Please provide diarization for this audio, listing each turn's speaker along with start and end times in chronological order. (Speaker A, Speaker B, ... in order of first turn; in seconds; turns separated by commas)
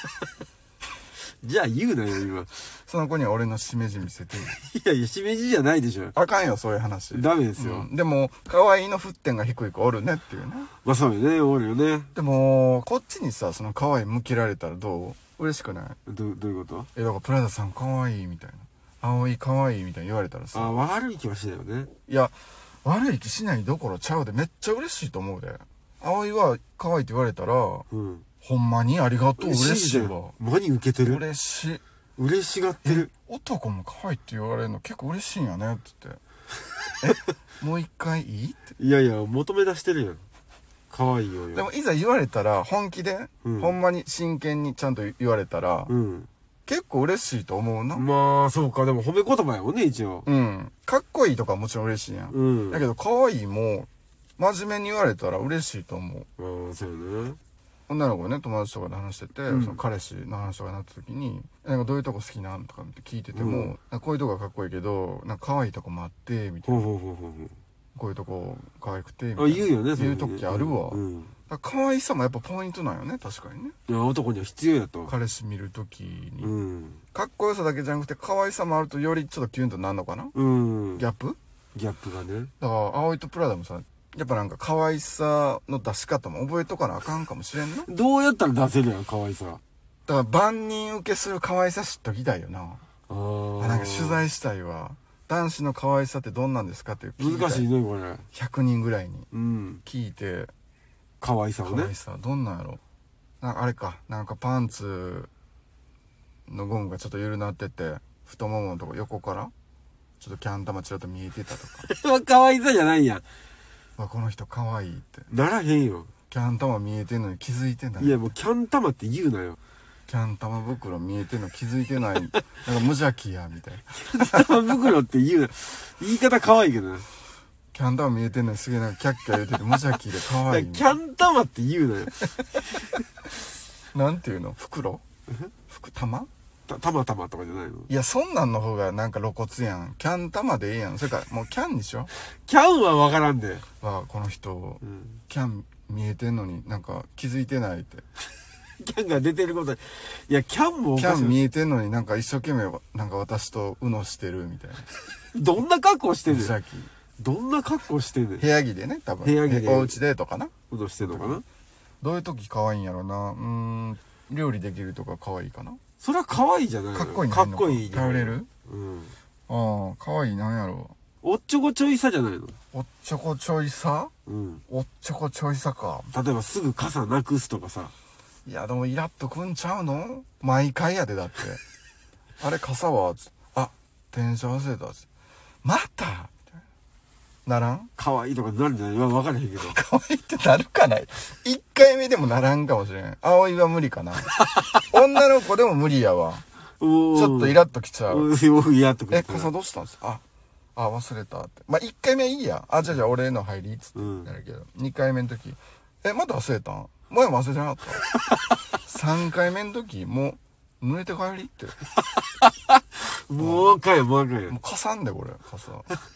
Speaker A: 1.4-2.7, Speaker B: 2.9-4.6, Speaker A: 4.6-6.1, Speaker B: 6.1-10.7, Speaker A: 7.1-7.9, Speaker A: 10.8-12.1, Speaker B: 12.1-16.0, Speaker A: 16.1-16.9, Speaker B: 16.9-20.8, Speaker A: 20.5-21.9, Speaker B: 22.1-27.9, Speaker A: 27.9-28.2, Speaker B: 28.4-30.4, Speaker A: 29.4-31.2, Speaker B: 31.1-31.8, Speaker A: 32.2-33.1, Speaker B: 32.8-36.2, Speaker B: 37.0-38.6, Speaker A: 38.8-40.2, Speaker A: 40.9-41.7, Speaker B: 41.5-45.9, Speaker A: 43.4-43.7, Speaker A: 45.9-46.3, Speaker B: 46.7-48.1, Speaker A: 47.9-50.3, Speaker B: 50.3-56.3, Speaker A: 52.3-52.8, Speaker A: 56.4-57.4, Speaker B: 57.9-66.9, Speaker A: 59.5-59.8, Speaker A: 63.3-63.8, Speaker A: 66.7-67.5, Speaker B: 68.0-73.8, Speaker A: 69.4-71.3, Speaker A: 73.9-75.1, Speaker B: 75.1-76.5, Speaker A: 76.4-77.0, Speaker B: 77.1-80.3, Speaker A: 80.3-81.0, Speaker B: 81.0-81.4, Speaker A: 81.8-82.5, Speaker B: 82.6-87.9, Speaker A: 87.9-89.6, Speaker B: 90.1-92.8, Speaker A: 93.1-94.2, Speaker B: 93.6-97.7, Speaker A: 97.2-98.3, Speaker B: 98.3-99.3, Speaker A: 99.3-99.8, Speaker B: 99.8-100.5, Speaker A: 101.2-101.9, Speaker B: 101.6-102.8, Speaker B: 103.4-105.3, Speaker B: 106.5-109.5, Speaker B: 110.2-111.9, Speaker A: 111.8-113.2, Speaker B: 114.0-115.3, Speaker A: 115.3-116.1, Speaker B: 116.3-118.3, Speaker A: 118.0-119.6, Speaker B: 120.1-124.9, Speaker A: 124.0-127.1, Speaker B: 127.7-131.0, Speaker A: 130.3-132.3, Speaker B: 133.9-135.0, Speaker B: 135.7-136.3, Speaker A: 136.7-137.9, Speaker B: 137.9-142.1, Speaker A: 142.5-143.7, Speaker B: 143.8-148.1, Speaker A: 148.8-151.4, Speaker B: 151.0-154.9, Speaker A: 155.3-156.5, Speaker B: 156.3-156.9, Speaker A: 157.2-158.4, Speaker B: 158.4-160.5, Speaker A: 159.2-160.0, Speaker A: 160.7-161.4, Speaker B: 161.1-161.4, Speaker B: 162.0-165.8, Speaker A: 166.0-169.1, Speaker B: 166.9-168.5, Speaker B: 169.5-170.9, Speaker A: 171.2-172.6, Speaker B: 172.7-174.1, Speaker A: 174.3-174.6, Speaker B: 174.7-176.1, Speaker A: 176.1-177.9, Speaker B: 178.5-181.6, Speaker B: 182.4-185.1, Speaker B: 185.6-186.5, Speaker B: 187.5-187.9, Speaker A: 188.0-189.8, Speaker B: 189.6-196.4, Speaker A: 194.4-194.7, Speaker A: 196.8-199.5, Speaker B: 197.1-198.3, Speaker B: 199.1-200.2, Speaker B: 200.8-208.1, Speaker A: 204.0-204.3, Speaker B: 208.7-211.8, Speaker A: 212.1-214.6, Speaker B: 213.4-213.8, Speaker B: 214.5-215.9